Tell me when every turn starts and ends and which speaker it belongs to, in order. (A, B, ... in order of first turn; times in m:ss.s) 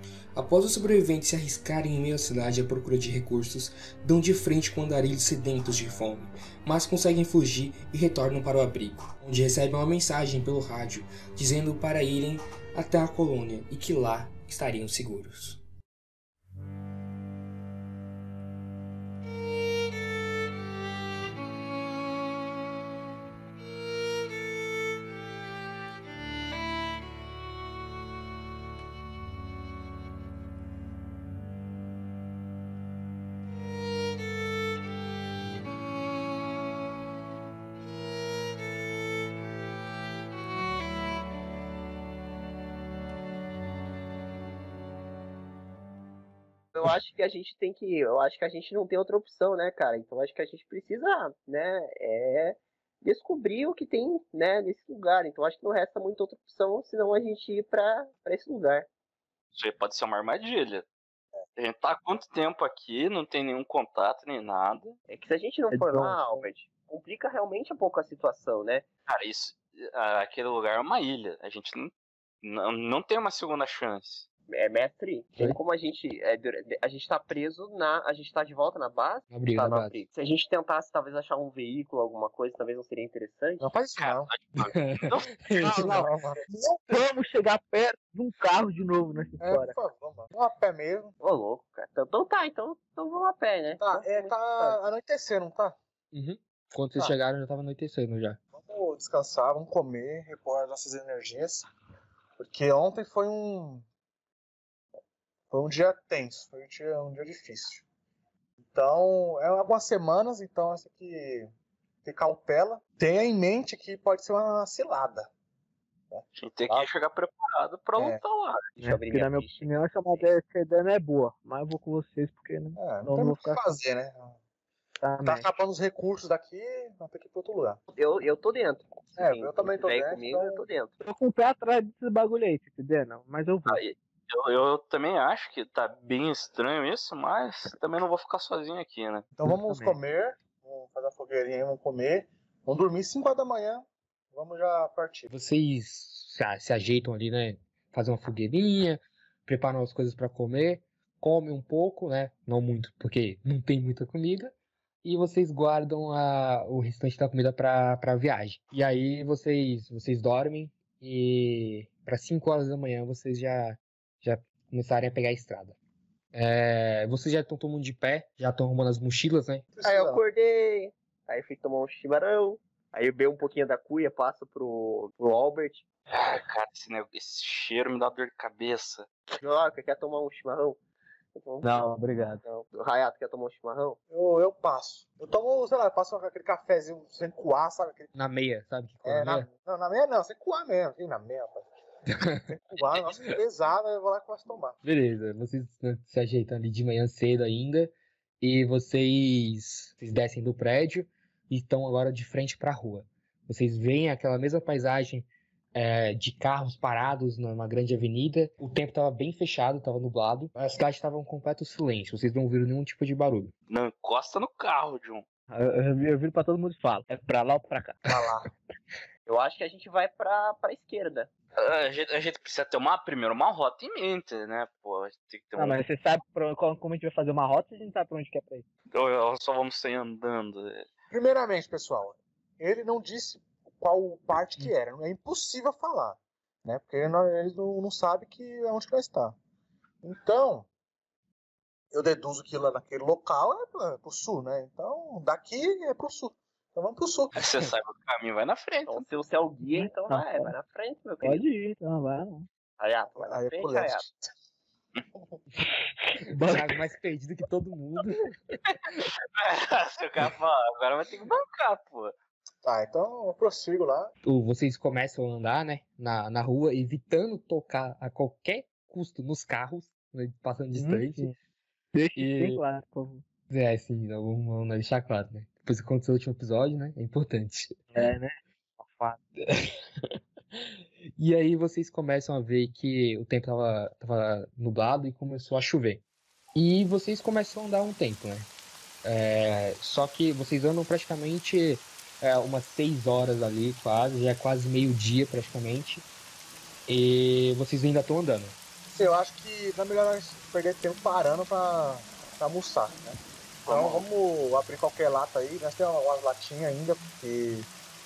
0:00.3-0:15.6 A
0:46.7-0:58.9 B
0:59.5-1:00.8 C
1:01.6-1:04.9 C
1:05.1-1:08.8 B
1:05.7-1:06.4 D
1:09.1-1:14.2 C
1:14.5-1:23.6 B
1:19.3-1:20.0 A
1:23.6-1:24.3 E
1:24.0-1:25.3 C
1:24.6-1:25.9 A
1:25.5-1:26.8 E
1:25.7-1:26.1 D
1:26.9-1:29.8 D
1:29.4-1:31.1 E
1:31.2-1:34.8 B
1:33.8-1:35.8 E
1:36.1-1:38.4 A
1:38.5-1:41.7 E
1:42.4-1:43.8 E
1:45.5-1:47.8 E
1:48.7-1:51.5 E
1:52.0-1:55.3 E
1:56.1-1:56.9 E
1:56.4-1:58.7 C
1:58.0-1:58.2 E
1:58.8-2:03.6 D
1:58.8-2:00.3 B
2:02.8-2:04.4 E
2:05.0-2:05.4 D
2:05.2-2:07.8 E
2:08.0-2:10.9 B
2:09.2-2:10.6 E
2:11.0-2:13.8 D
2:13.6-2:19.3 C
2:19.4-2:25.3 E
2:19.5-2:19.9 D
2:25.3-2:34.5 A
2:35.0-2:45.8 A
2:46.3-2:49.6 A
2:49.7-2:50.2 E
2:49.8-2:55.8 B
2:56.1-2:59.1 C
2:59.4-3:00.8 B
3:01.4-3:01.7 B
3:01.6-3:02.4 D
3:02.4-3:04.0 B
3:04.1-3:08.1 E
3:08.1-3:09.5 A
3:09.0-3:11.7 E
3:12.1-3:12.5 A
3:12.5-3:14.8 E
3:14.8-3:33.5 A
3:33.7-3:35.2 C
3:35.5-3:38.0 D
3:38.0-3:38.4 E
3:39.2-3:41.3 B
3:41.6-3:45.8 C
3:45.6-3:48.6 D
3:48.9-3:50.9 C
3:51.1-3:59.4 E
4:00.0-4:00.7 E
4:01.9-4:07.3 E
4:07.3-4:09.0 C
4:08.9-4:11.5 B
4:09.6-4:10.5 D
4:11.2-4:12.5 D
4:12.8-4:14.0 B
4:13.2-4:14.2 E
4:16.2-4:16.8 D
4:16.3-4:18.4 A
4:19.3-4:22.1 C
4:22.6-4:24.1 E
4:24.2-4:31.3 A
4:30.7-4:31.3 D
4:31.9-4:33.2 D
4:32.2-4:32.6 A
4:33.5-4:37.8 A
4:37.9-4:39.2 D
4:39.5-4:39.7 A
4:41.2-4:46.0 A
4:46.6-4:48.5 A
4:49.0-4:56.0 A
4:56.9-4:58.6 A
4:58.9-5:07.7 E
5:03.7-5:04.0 B